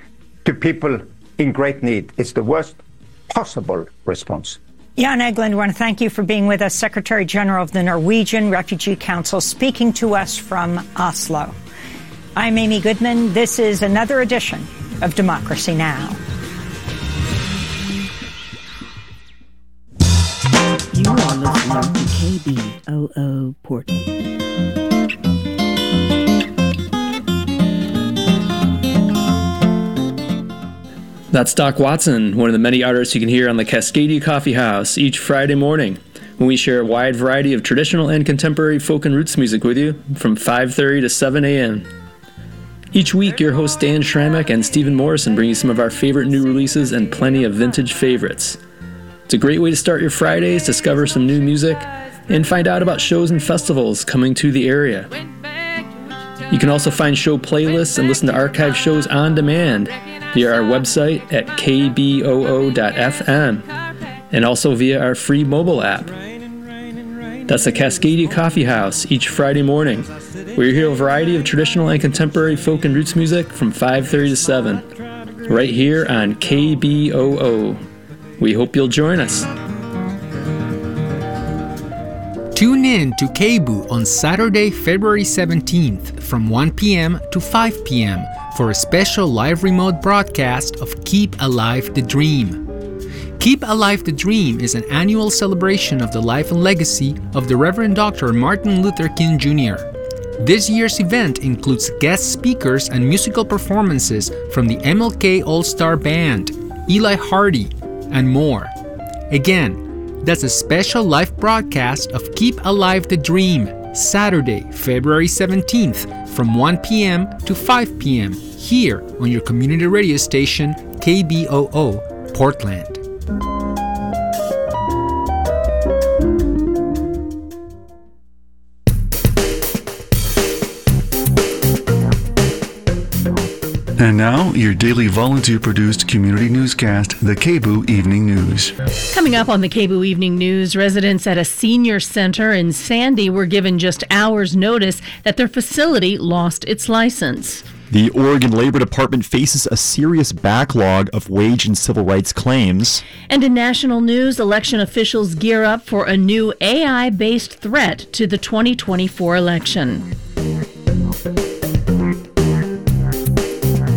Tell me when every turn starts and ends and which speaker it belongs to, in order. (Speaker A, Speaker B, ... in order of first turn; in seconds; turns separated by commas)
Speaker A: 0.5-4.6, Speaker B: 5.0-11.6, Speaker B: 12.4-16.2, Speaker B: 20.9-23.9, Speaker C: 31.3-41.9, Speaker C: 42.9-48.6, Speaker C: 49.3-55.1, Speaker C: 56.5-63.7, Speaker C: 64.3-66.2, Speaker C: 67.5-74.8, Speaker C: 75.5-77.8, Speaker C: 78.4-79.5, Speaker D: 82.5-92.6, Speaker D: 93.4-108.7, Speaker D: 109.3-123.0, Speaker E: 134.0-138.7, Speaker F: 139.1-147.6, Speaker G: 147.9-153.0, Speaker F: 153.3-160.1